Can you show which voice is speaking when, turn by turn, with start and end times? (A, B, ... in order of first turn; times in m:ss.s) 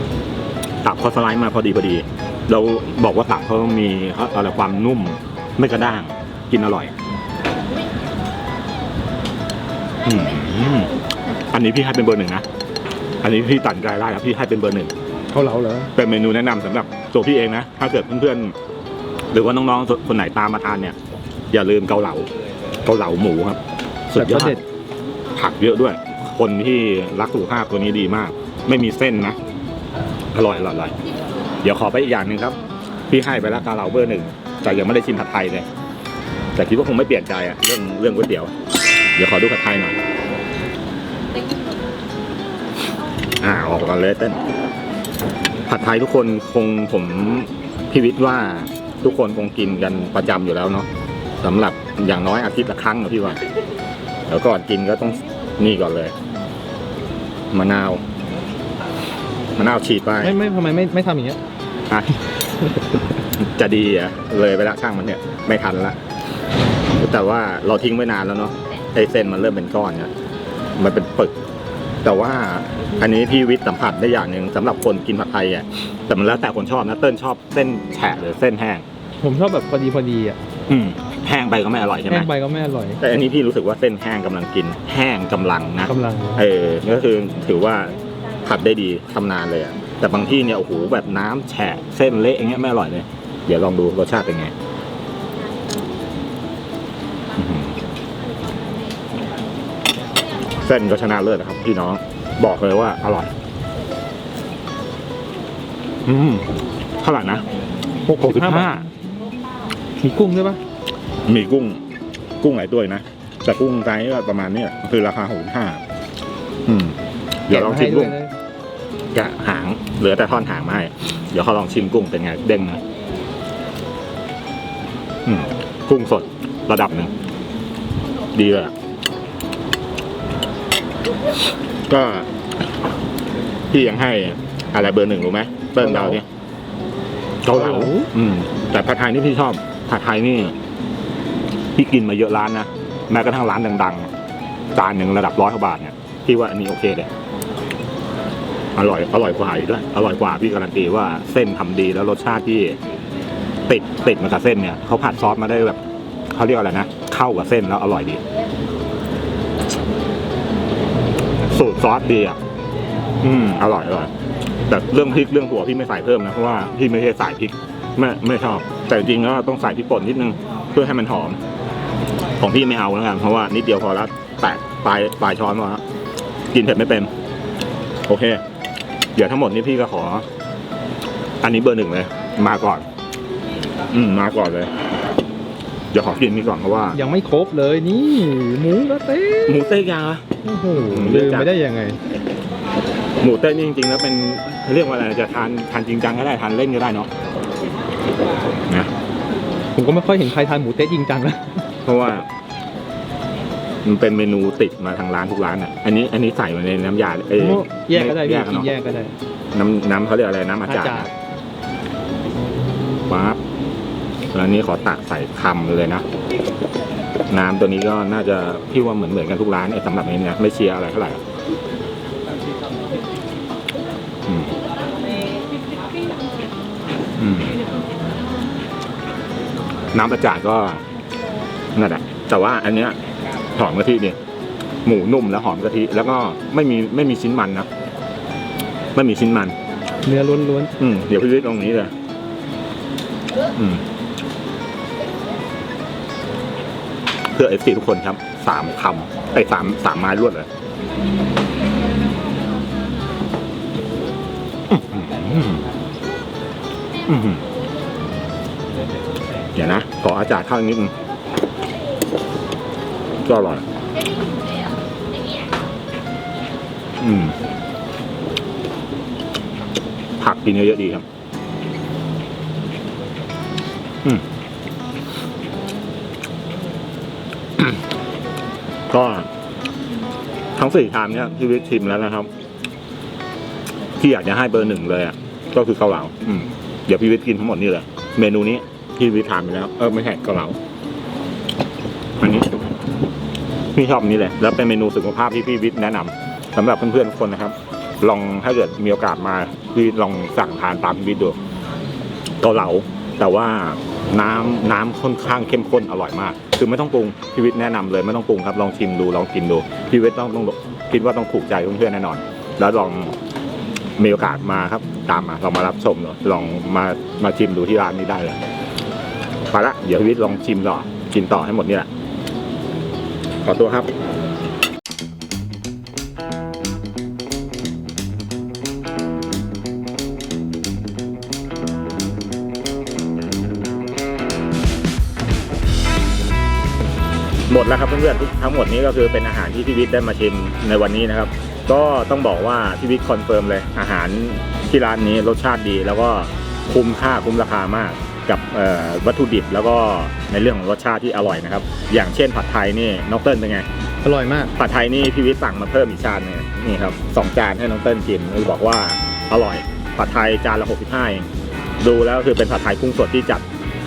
0:00.8-0:06.9 A
0:10.0-0:10.9 A
0:11.5-0:12.4 A
0:13.2-0:14.9 A
0:15.3-0:15.9 B
0:16.0-0:18.5 A
0:19.3-0:21.0 A
0:21.5-0:22.3 A
0:22.8-0:23.6 A
0:24.1-0:24.6 A
0:24.2-0:24.6 B
0:25.3-0:29.4 A
0:30.3-0:30.9 A
0:31.6-0:32.6 A
0:33.1-0:35.6 A
0:36.6-0:38.5 A
0:39.2-0:40.0 A
0:43.4-0:44.4 A
0:45.7-0:50.9 A
0:51.4-0:53.4 A
0:54.3-0:56.1 A
0:57.5-0:58.0 A
0:59.6-1:00.4 A
1:00.2-1:01.4 B
1:01.9-1:02.2 A
1:03.3-1:06.0 A
1:07.0-1:10.1 A
1:10.8-1:11.4 A
1:12.0-1:18.8 A
1:19.2-1:20.4 B
1:20.7-1:22.3 A
1:22.1-1:23.0 B
1:23.0-1:34.5 A
1:25.9-1:26.4 B
1:37.4-1:37.7 A
1:40.6-1:43.3 A
1:46.0-1:46.5 A
1:47.0-1:47.4 A
1:48.1-1:48.7 B
1:48.2-1:48.9 A
1:50.0-1:50.6 B
1:51.2-1:51.8 A
1:52.4-1:55.8 A
1:56.6-1:58.2 A
1:57.5-1:58.3 B
1:59.1-2:02.8 A
2:05.2-2:07.1 A
2:08.3-2:08.7 A
2:11.9-2:12.3 A
2:13.7-2:16.2 A
2:15.9-2:16.2 B
2:17.4-2:20.5 A
2:17.5-2:18.1 B
2:21.8-2:24.1 A
2:24.7-2:27.1 A
2:28.8-2:32.8 A
2:33.7-2:35.8 A
2:36.3-2:38.2 A
2:41.5-2:42.4 A
2:43.2-2:44.1 A
2:44.7-2:51.4 A
2:52.4-2:55.8 A
2:56.5-2:57.1 A
2:58.1-2:58.4 A
2:59.1-3:00.2 A
3:01.4-3:02.8 A
3:03.9-3:04.7 A
3:05.9-3:07.0 A
3:06.9-3:09.7 B
3:09.4-3:10.2 A
3:10.4-3:12.0 B
3:10.8-3:11.5 A
3:13.2-3:17.1 A
3:19.7-3:21.6 B
3:21.8-3:22.3 A
3:23.8-3:28.7 A
3:27.4-3:29.1 B
3:29.5-3:31.1 A
3:30.7-3:31.1 B
3:33.1-3:33.4 A
3:34.3-3:36.0 A
3:37.3-3:41.2 A
3:44.3-3:44.5 A
3:47.2-3:47.6 A
3:49.9-3:50.8 A
3:51.7-3:53.0 A
3:53.5-3:54.2 A
3:54.8-3:57.7 A
3:58.9-3:59.5 A
4:00.0-4:00.7 B
4:00.8-4:01.9 A
4:03.6-4:03.8 A
4:07.3-4:10.5 A
4:14.7-4:15.6 A
4:17.1-4:17.4 A
4:19.6-4:20.9 A
4:23.2-4:23.6 A
4:27.0-4:27.4 A
4:30.2-4:31.0 A
4:38.9-4:39.3 A
4:40.5-4:42.3 A
4:44.0-4:50.6 A
4:52.2-4:52.5 A
4:53.7-5:01.4 A
5:02.4-5:13.1 A
5:14.0-5:18.4 A
5:19.5-5:21.9 A
5:23.4-5:23.9 A
5:37.5-5:53.6 A
5:54.0-5:54.5 B
5:54.6-6:01.3 A
6:01.8-6:03.4 A